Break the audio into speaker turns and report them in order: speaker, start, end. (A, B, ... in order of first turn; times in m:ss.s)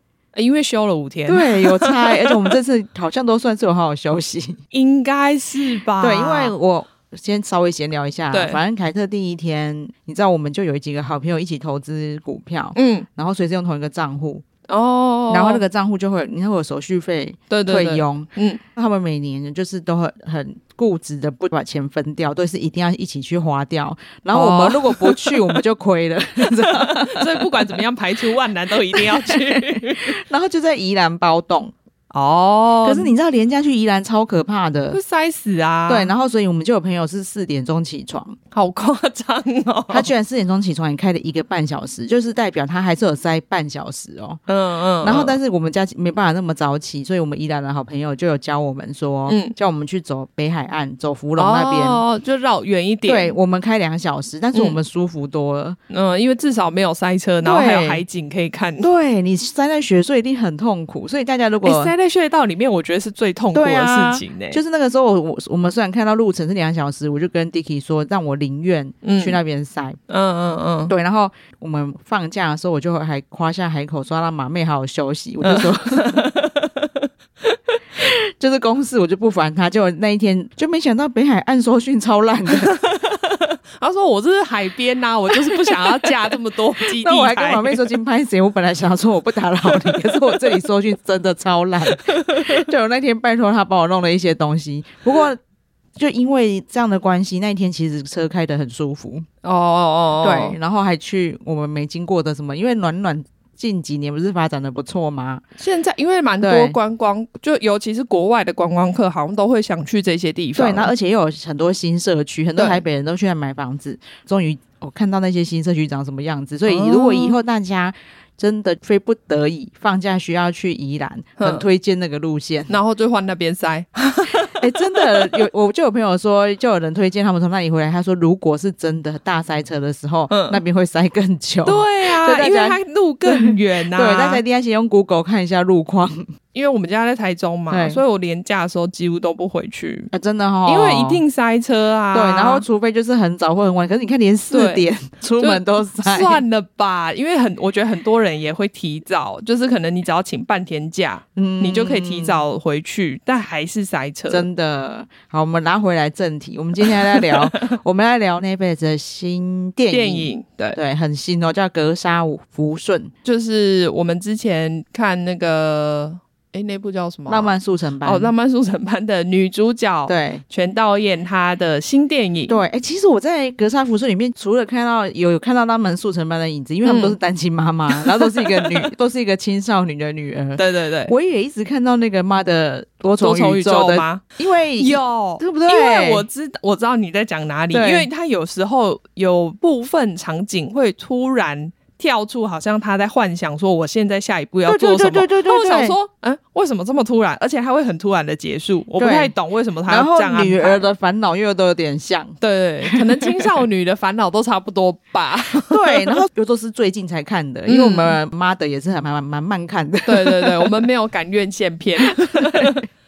0:00.3-0:02.5 A
0:01.3-0:04.6 B
0:04.7-0:06.5 A
0:06.0-0:14.4 B
0:08.3-0:08.6 A
0:12.7-0:13.1 A
0:14.7-0:15.6 A
0:15.3-0:27.8 B
0:17.5-0:18.6 A
0:24.3-0:25.6 A
0:26.5-0:30.2 A
0:28.9-0:31.7 B
0:32.1-0:33.1 A
0:32.8-0:35.0 B
0:34.9-0:36.1 A
0:35.9-0:38.4 B
0:38.5-0:40.1 A
0:39.9-0:44.4 B
0:44.5-0:45.4 A
0:45.0-0:52.0 B
0:49.3-0:49.5 A
0:51.4-0:53.3 A
0:53.0-0:55.8 B
0:55.9-0:58.9 A
0:57.4-0:58.0 B
0:58.8-1:01.9 B
1:01.6-1:04.6 A
1:03.5-1:10.0 B
1:09.0-1:09.4 A
1:10.1-1:10.9 A
1:10.9-1:16.2 B
1:15.4-1:17.6 A
1:18.0-1:22.7 B
1:22.5-1:27.9 A
1:25.6-1:25.8 B
1:26.8-1:35.4 B
1:29.7-1:30.5 A
1:31.9-1:32.6 A
1:36.0-1:39.2 B
1:39.4-1:40.6 A
1:40.2-1:45.4 B
1:45.6-1:50.9 A
1:46.4-1:46.8 B
1:50.6-2:02.7 B
1:52.6-1:52.8 A
1:56.7-1:57.3 A
2:01.4-2:01.6 A
2:02.7-2:05.5 A
2:04.3-2:16.2 B
2:10.3-2:10.6 A
2:11.6-2:14.4 A
2:16.5-2:20.1 A
2:17.7-2:18.0 B
2:20.1-2:21.2 B
2:20.6-2:22.6 A
2:22.1-2:26.4 B
2:24.5-2:24.8 A
2:25.4-2:34.5 A
2:31.4-2:32.4 B
2:34.3-2:43.1 B
2:39.9-2:40.8 A
2:43.2-2:52.6 A
2:47.3-2:48.3 B
2:50.1-2:50.4 B
2:52.5-3:06.2 B
2:56.8-2:57.2 A
2:57.9-2:58.9 A
3:00.6-3:01.1 A
3:03.2-3:04.2 A
3:04.8-3:20.8 A
3:07.7-3:08.1 B
3:14.6-3:15.9 B
3:19.0-3:19.3 B
3:19.9-3:22.4 B
3:22.4-3:26.2 A
3:25.6-3:30.8 B
3:27.7-3:28.1 A
3:30.0-3:32.8 A
3:32.1-3:32.8 B